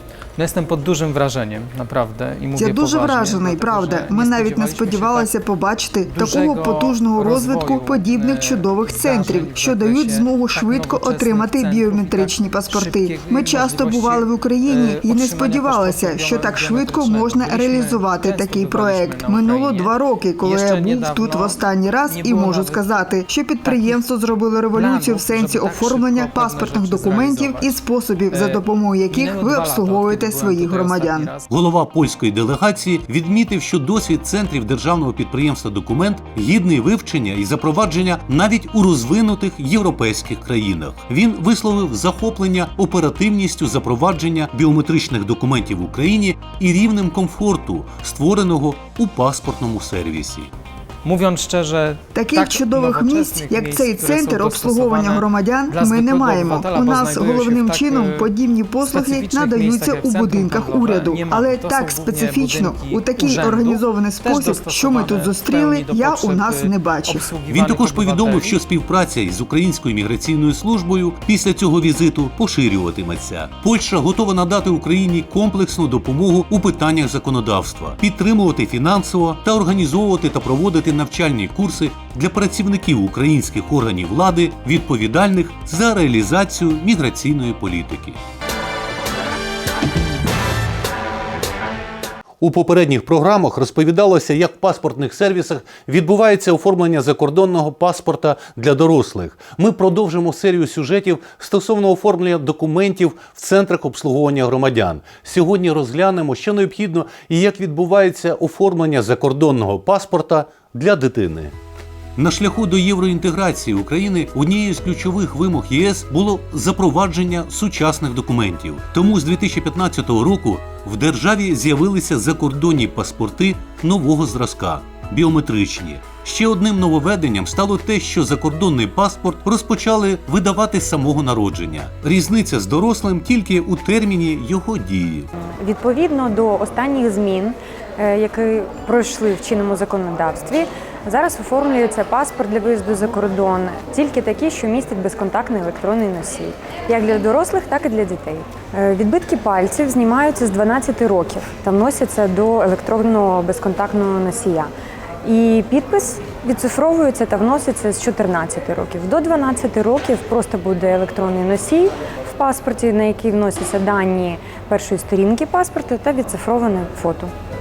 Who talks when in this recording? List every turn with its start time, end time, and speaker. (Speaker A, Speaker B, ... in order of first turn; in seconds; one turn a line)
Speaker A: 0.4-5.3
Speaker B: 2.6-31.3
Speaker A: 6.0-23.0
Speaker A: 23.6-24.0
Speaker A: 24.7-27.7
Speaker A: 28.3-31.5
Speaker C: 31.5-50.5
Speaker A: 51.0-58.3
Speaker B: 52.1-67.3
Speaker A: 58.8-68.6
Speaker C: 67.5-88.2
Speaker C: 92.4-111.5
Speaker C: 112.2-135.3
Speaker D: 135.4-154.7
Speaker D: 155.2-167.3